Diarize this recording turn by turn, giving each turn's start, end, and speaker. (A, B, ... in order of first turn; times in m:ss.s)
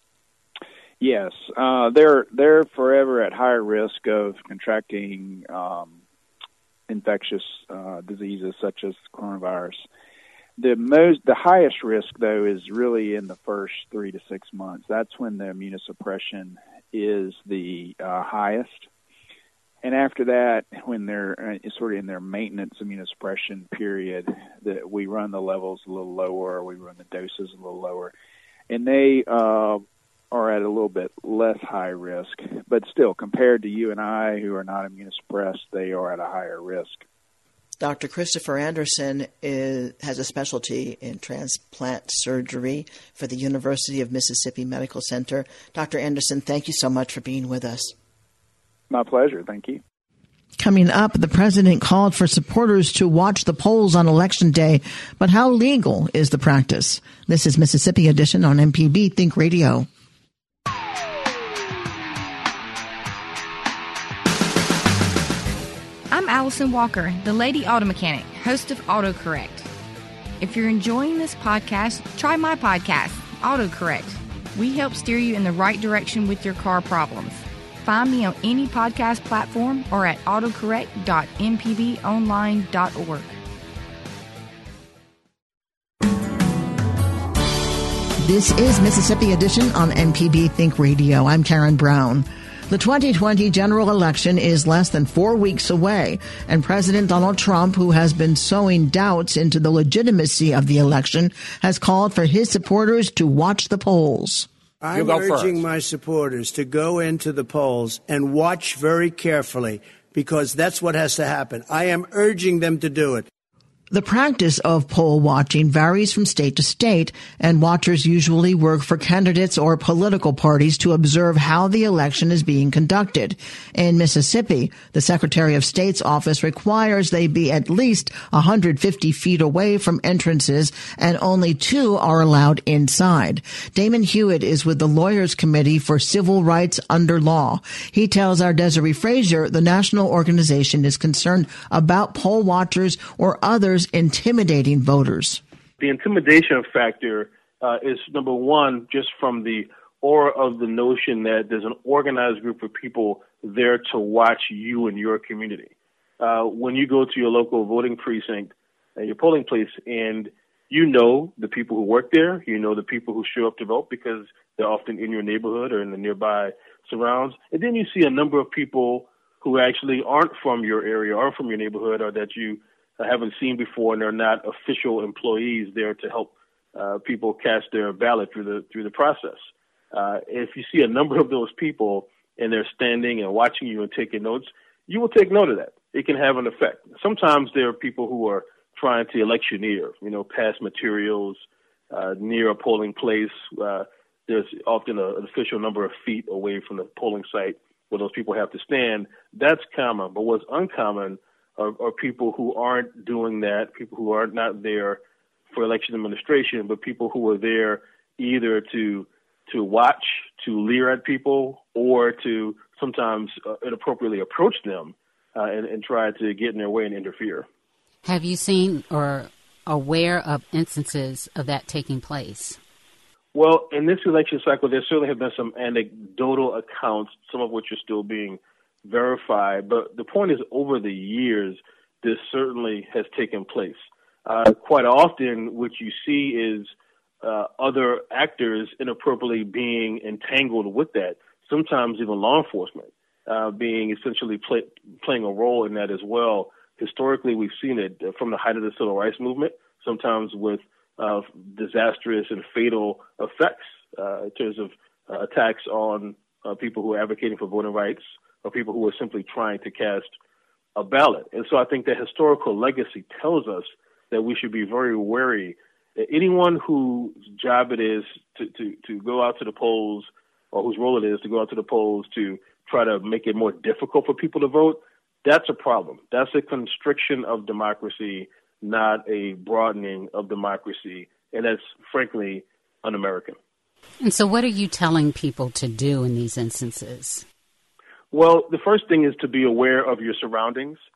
0:01.0-0:06.0 A
0:06.9-0:09.8 A
0:10.6-0:18.9 A
0:19.8-0:28.1 A
0:28.7-0:37.0 A
0:37.8-0:47.9 B
0:48.9-0:49.8 A
0:50.6-0:59.9 B
1:06.1-1:09.7 C
1:10.4-1:23.4 C
1:28.2-1:44.5 B
1:44.8-1:53.3 D
1:53.9-2:25.4 B
2:25.8-3:11.4 E
3:11.9-3:25.0 E
3:25.5-3:37.4 E
3:38.0-3:42.6 F
3:43.3-3:56.7 E
3:57.2-4:20.1 E
4:20.8-4:43.4 E
4:44.0-4:47.2 F
4:48.1-4:50.8 E